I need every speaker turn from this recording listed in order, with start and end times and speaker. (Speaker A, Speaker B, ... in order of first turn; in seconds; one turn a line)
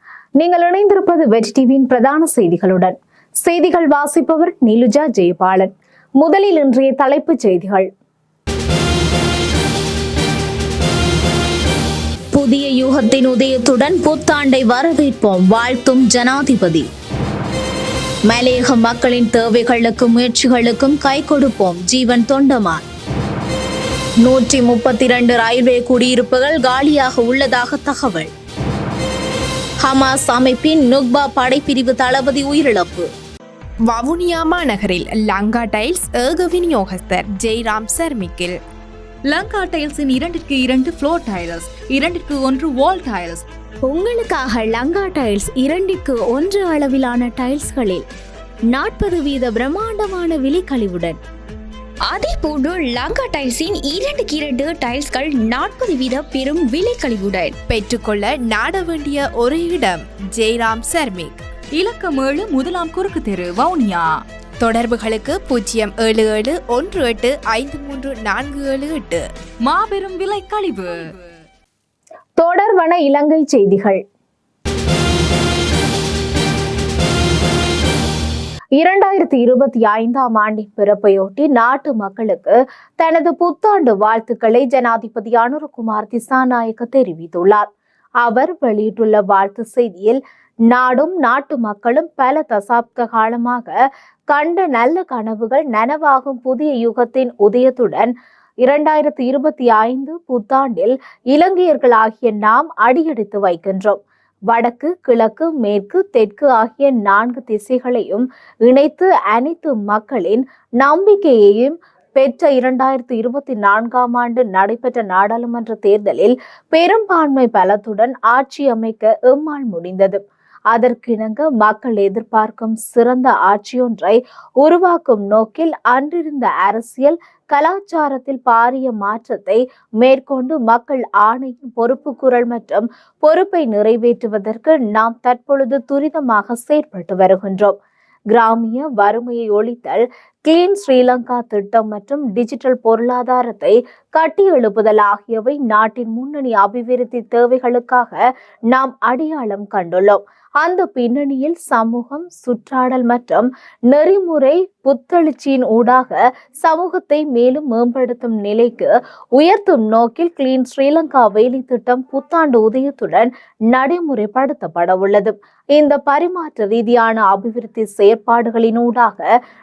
Speaker A: 0.4-7.9
Speaker A: 12.3-16.9
Speaker A: 18.3-22.8
Speaker A: 24.2-28.3
Speaker A: 29.8-33.1
Speaker B: 33.9-38.6
Speaker C: 39.3-43.5
Speaker A: 43.9-48.0
Speaker A: 48.7-51.2
Speaker D: 52.1-57.5
Speaker B: 57.7-61.4
Speaker C: 61.8-64.1
Speaker B: 64.6-69.2
Speaker C: 69.6-71.0
Speaker A: 72.4-74.0
Speaker A: 78.8-87.7
Speaker A: 88.2-90.2
Speaker A: 90.7-93.8
Speaker A: 94.3-104.0
Speaker A: 104.5-137.8
Speaker A: 138.3-169.3